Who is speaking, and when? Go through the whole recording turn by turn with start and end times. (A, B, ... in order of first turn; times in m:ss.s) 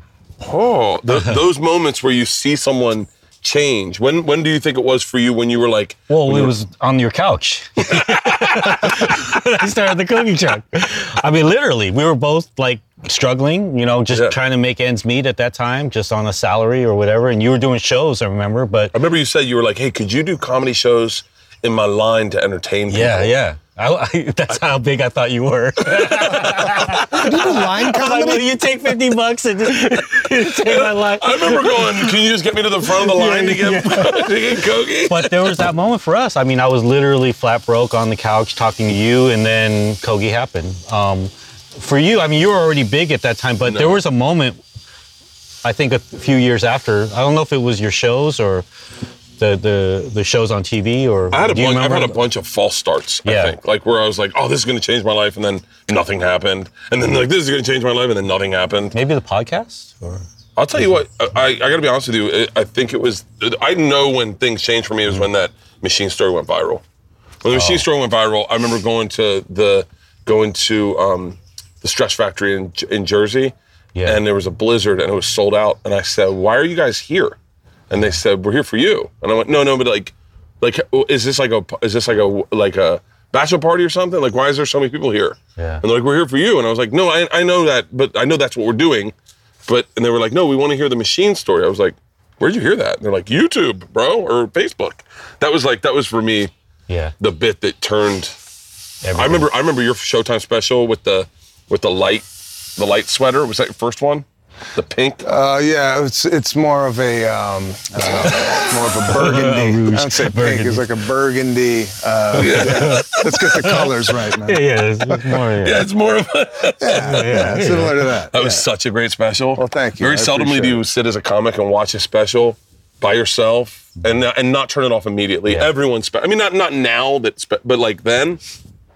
0:00.4-0:06.5 A
0:06.1-0:18.9 B
0:07.9-0:08.9 A
0:14.1-0:14.4 A
0:18.9-0:23.3 A
0:22.9-0:32.2 B
0:25.8-0:27.1 A
0:27.1-0:28.6 C
0:30.0-0:35.6 A
0:32.9-0:44.6 B
0:43.6-0:44.0 A
0:45.6-0:48.6 B
0:49.4-0:52.2 B
0:51.3-0:59.0 A
0:53.2-0:53.6 B
0:58.9-1:00.2 B
1:00.6-1:06.8 A
1:07.4-1:17.4 A
1:07.5-1:07.8 B
1:14.0-1:14.2 B
1:17.9-1:29.1 A
1:25.6-1:25.8 B
1:29.7-1:36.5 A
1:36.9-1:37.2 B
1:37.2-1:38.4 A
1:39.0-1:39.5 B
1:39.1-1:45.2 A
1:45.2-1:55.4 C
1:48.3-1:50.8 B
1:52.4-1:53.2 A
1:52.4-1:55.9 B
1:55.6-1:57.7 A
1:56.8-1:58.7 C
1:57.0-1:58.1 B
1:58.3-2:08.4 A
1:59.6-2:00.8 C
2:05.5-2:05.7 B